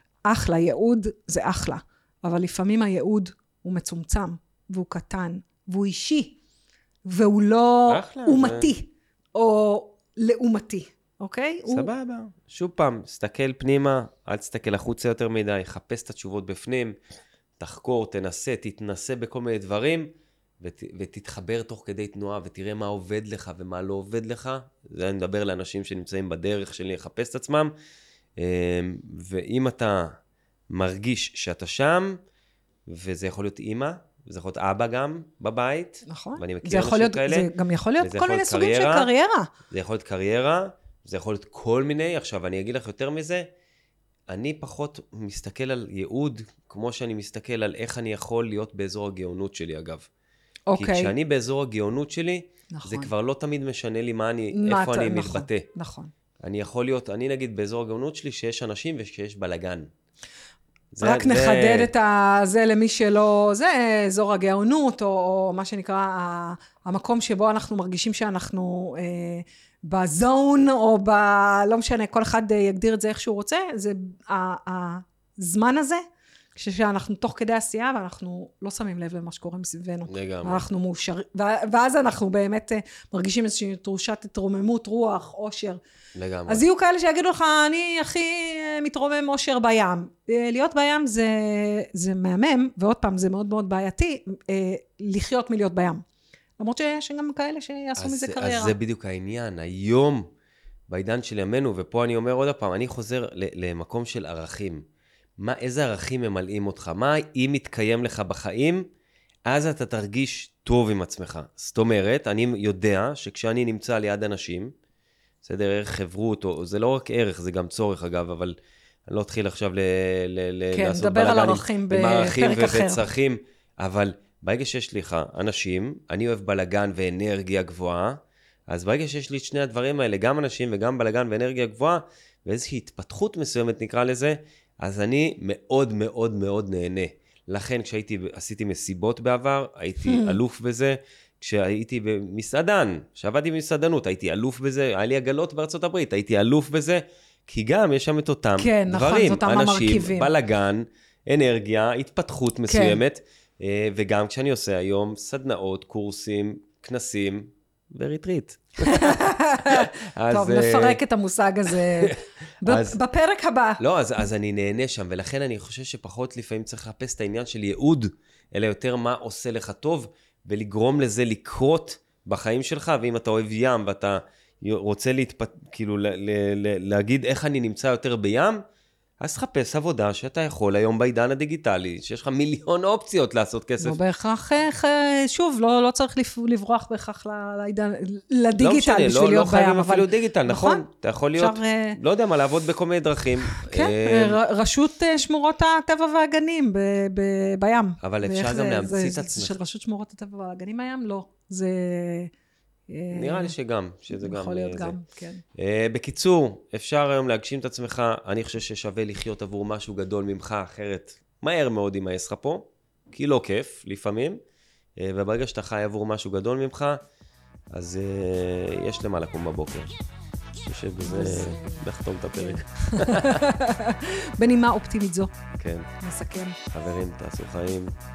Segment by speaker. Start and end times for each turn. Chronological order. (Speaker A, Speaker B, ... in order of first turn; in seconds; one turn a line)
Speaker A: 0.2-6.4
Speaker A: 7.0-11.9
Speaker B: 7.9-8.7
Speaker B: 11.7-16.9
Speaker B: 17.6-20.1
Speaker B: 20.6-27.7
Speaker B: 28.4-30.1
Speaker B: 30.7-32.2
Speaker B: 32.9-37.5
Speaker A: 36.0-39.5
Speaker B: 38.0-39.1
Speaker B: 39.7-43.5
Speaker B: 44.3-50.1
Speaker A: 50.7-51.1
Speaker B: 50.7-55.7
Speaker A: 52.7-53.1
Speaker A: 54.5-56.1
Speaker B: 56.4-59.9
Speaker B: 60.9-61.9
Speaker A: 61.0-76.0
Speaker A: 76.5-85.8
Speaker B: 80.1-80.6
Speaker B: 86.2-86.6
Speaker A: 86.5-96.0
Speaker A: 96.6-98.8
Speaker B: 98.0-100.3
Speaker B: 100.9-104.8
Speaker B: 105.4-108.9
Speaker B: 109.5-114.7
Speaker B: 115.4-118.5
Speaker B: 119.1-161.0
Speaker A: 120.7-123.0
Speaker A: 140.0-140.4
Speaker A: 148.6-150.3
Speaker A: 152.7-153.0
Speaker A: 158.8-163.8
Speaker B: 161.7-163.0
Speaker B: 163.8-178.6
Speaker B: 179.2-184.0
Speaker A: 183.8-190.8
Speaker B: 188.6-194.4
Speaker A: 191.4-192.0
Speaker A: 193.5-202.3
Speaker B: 198.0-199.6
Speaker A: 202.9-203.5
Speaker B: 203.1-205.0
Speaker A: 204.1-205.4
Speaker B: 205.6-214.4
Speaker B: 215.0-217.0
Speaker B: 217.7-219.9
Speaker B: 220.6-223.4
Speaker A: 221.0-221.8
Speaker A: 222.4-225.3
Speaker B: 225.6-225.9
Speaker A: 226.0-226.6
Speaker B: 226.7-227.9